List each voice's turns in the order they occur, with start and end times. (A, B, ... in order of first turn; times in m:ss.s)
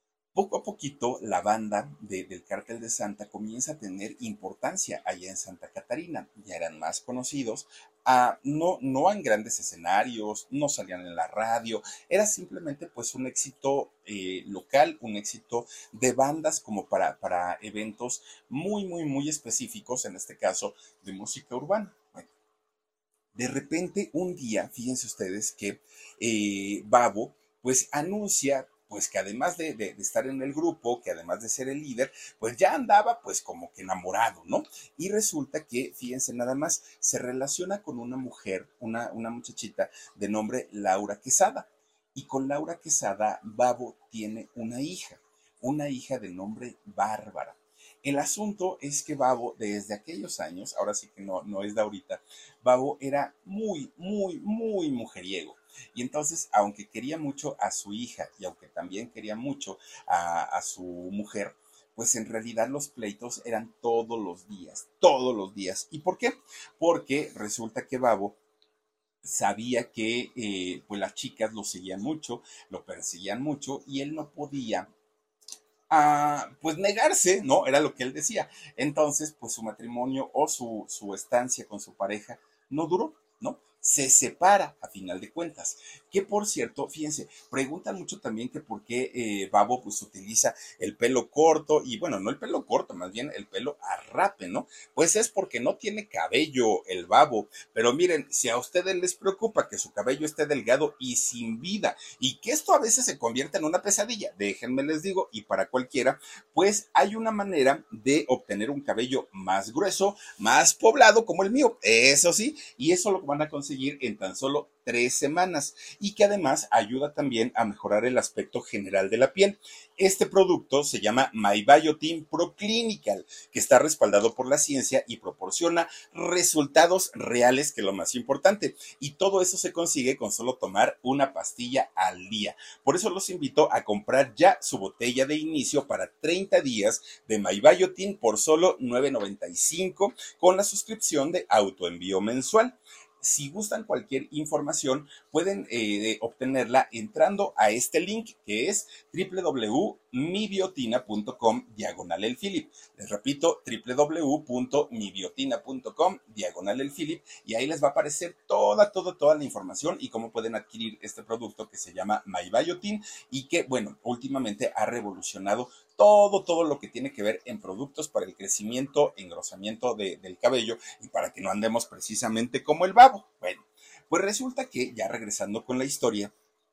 0:00.3-0:22.2 A
0:23.3-1:08.4 A
1:09.2-1:14.9 A
1:15.9-2:56.3 A